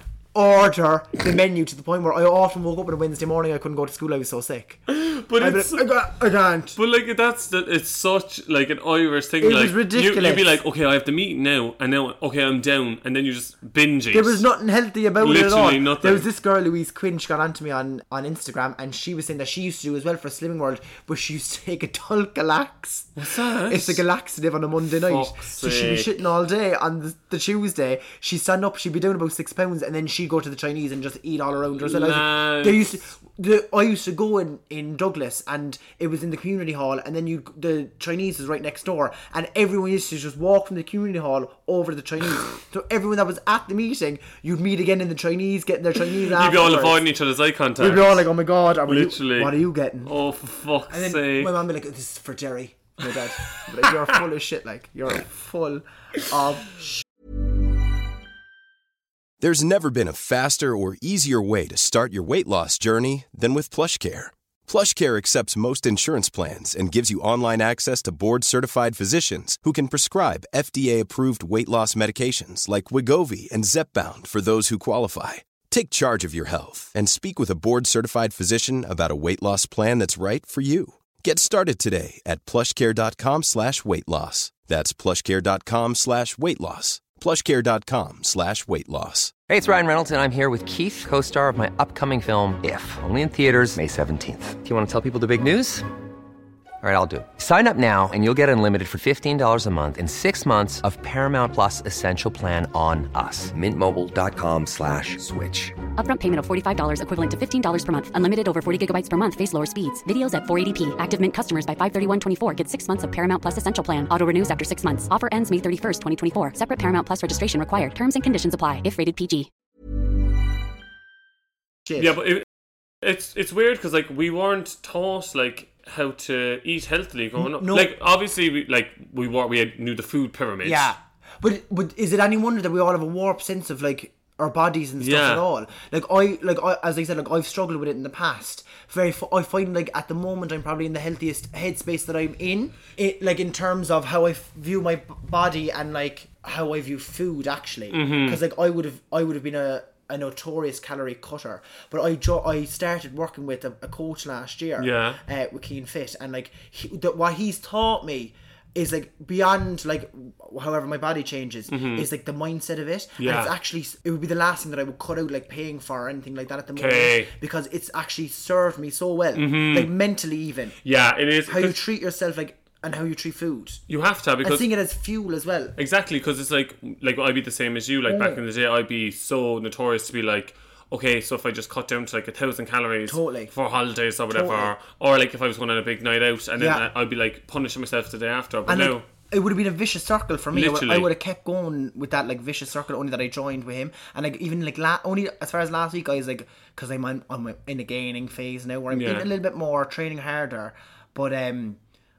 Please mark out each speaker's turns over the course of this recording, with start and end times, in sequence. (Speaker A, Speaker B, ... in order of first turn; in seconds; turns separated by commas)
Speaker A: 0.3-4.8, Speaker B: 4.9-5.9, Speaker A: 5.4-6.8, Speaker B: 6.8-14.5, Speaker A: 9.4-10.6, Speaker A: 14.1-47.0, Speaker B: 15.2-16.3, Speaker B: 23.1-24.0, Speaker B: 25.1-26.1, Speaker B: 31.8-32.9, Speaker B: 46.2-48.3, Speaker A: 47.8-50.1, Speaker B: 48.9-51.5, Speaker A: 50.9-56.9, Speaker B: 53.5-53.9, Speaker C: 59.4-89.3, Speaker D: 89.5-95.9, Speaker D: 96.8-105.7, Speaker E: 106.0-119.5, Speaker B: 122.0-122.5, Speaker B: 123.0-130.9, Speaker A: 127.4-127.9, Speaker A: 130.6-170.8, Speaker B: 135.0-135.4, Speaker B: 147.9-148.4, Speaker B: 154.8-155.2, Speaker B: 161.7-162.1, Speaker B: 163.2-163.5, Speaker B: 166.7-167.3, Speaker B: 169.3-169.9, Speaker B: 170.8-171.8, Speaker A: 171.4-173.8, Speaker B: 173.9-174.7, Speaker A: 174.4-175.8, Speaker B: 175.8-189.1, Speaker A: 178.1-178.4, Speaker A: 183.1-183.5, Speaker A: 184.3-184.7, Speaker A: 186.6-186.9, Speaker A: 188.7-201.8, Speaker B: 190.5-191.1, Speaker B: 198.9-199.3